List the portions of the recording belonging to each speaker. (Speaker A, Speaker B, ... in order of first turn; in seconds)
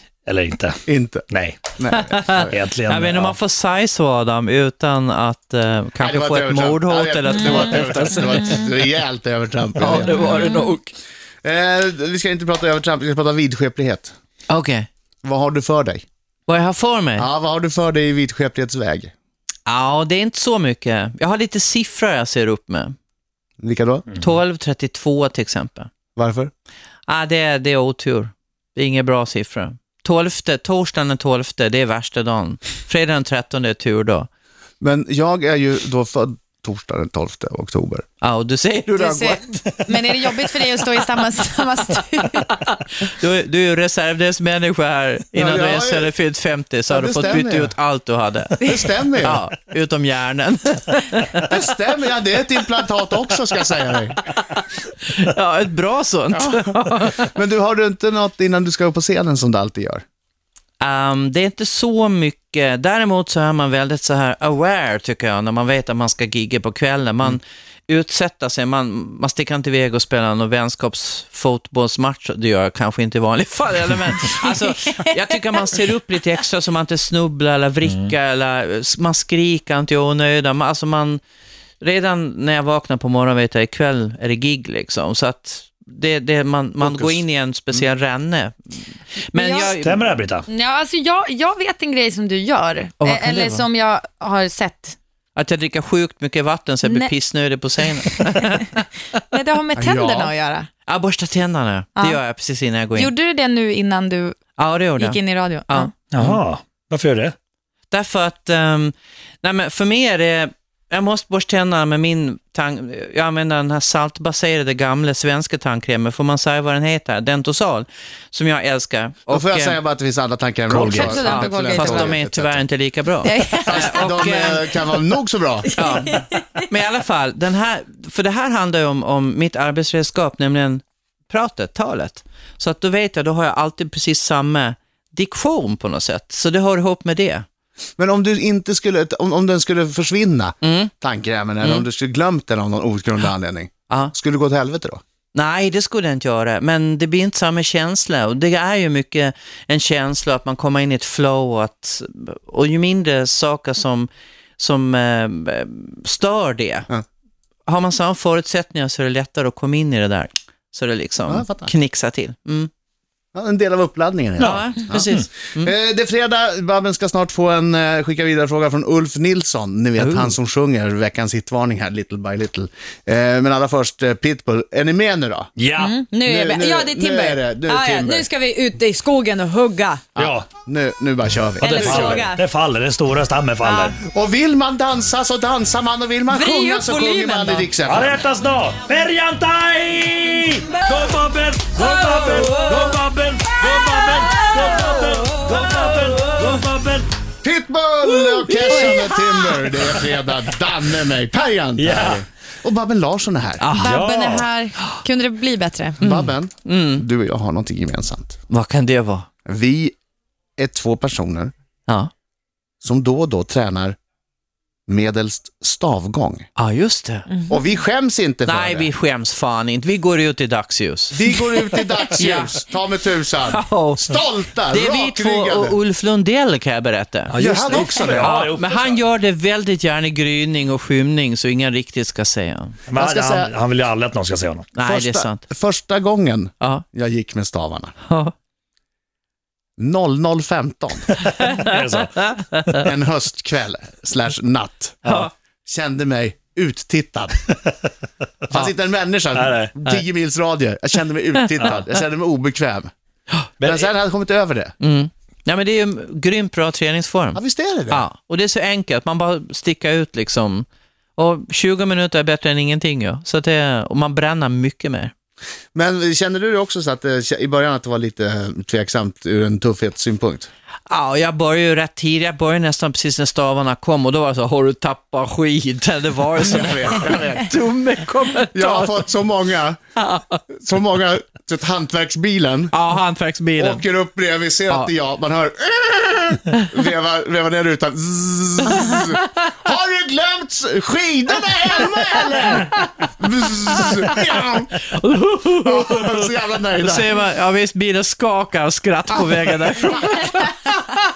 Speaker A: 0.2-1.6, 2.5-3.4, 77.8-78.1, 89.8-90.5, 106.1-107.3, 120.7-121.2, 164.4-165.2, 175.6-176.0, 180.2-180.5, 181.6-184.0, 187.8-197.1, 201.8-202.2, 203.8-204.5, 227.3-229.0, 232.9-234.7, 241.5-242.8, 249.3-249.7, 253.6-253.9
Speaker B: 0.9-2.6, 6.0-10.6, 11.4-14.1, 15.2-16.1, 17.2-19.1, 23.6-24.1, 26.1-26.5, 34.8-38.0, 45.3-46.1, 46.9-47.7, 48.6-49.4, 51.5-54.2, 56.3-60.0, 86.8-87.2, 99.7-100.3, 119.3-122.6, 123.6-125.7, 138.0-145.0, 161.3-161.7, 163.3-165.0, 165.5-175.5, 176.2-178.3, 180.2-182.3, 184.0-188.2, 197.4-203.6, 206.0-208.4, 209.4-209.9, 210.6-211.5, 212.8-213.9, 214.9-216.5, 217.5-218.9, 221.1-225.8, 227.4-228.4, 232.9-233.5, 234.8-237.9, 239.8-241.1, 242.8-245.0, 245.7-247.4, 248.5-252.9, 253.6-254.7, 257.3-258.0, 265.7-270.5, 276.4-277.5, 278.5-279.8, 280.5-282.7, 283.6-294.7, 295.6-297.1
Speaker C: 1.9-8.6, 9.8-10.9, 14.5-14.9, 16.5-17.3, 19.7-22.9, 24.2-25.9, 27.1-34.3, 38.2-39.6, 43.0-48.7, 49.2-51.5, 55.0-57.3, 60.8-81.2, 81.8-88.8, 89.3-90.1, 93.0-93.6, 95.3-98.8, 100.9-103.1, 104.6-106.4, 107.9-119.8, 121.1-124.7, 125.7-137.4, 140.6-140.9, 145.3-156.9, 157.7-162.7, 164.4-165.7, 170.0-170.3, 203.6-204.0, 206.0-207.0, 208.5-209.3, 216.6-217.3, 218.4-221.5, 222.0-222.6, 223.5-224.2, 224.7-232.8, 234.7-235.4, 238.1-238.3, 241.4-242.8, 245.0-245.3, 251.4-251.8, 254.8-260.6, 261.2-265.1, 270.9-279.0, 280.0-280.4, 282.7-283.8, 288.7-289.1, 294.9-296.0, 296.8-300.5
Speaker D: 7.3-8.6, 10.2-10.7, 38.9-42.5, 74.5-75.6, 89.3-89.8, 90.5-95.0, 96.8-97.1, 99.3-100.7, 102.9-104.4, 105.0-105.9, 120.8-122.2, 123.2-124.6, 125.6-126.6, 175.8-180.1, 181.6-182.4, 183.6-183.9, 186.3-187.7, 198.7-199.3, 203.7-206.0, 217.3-217.6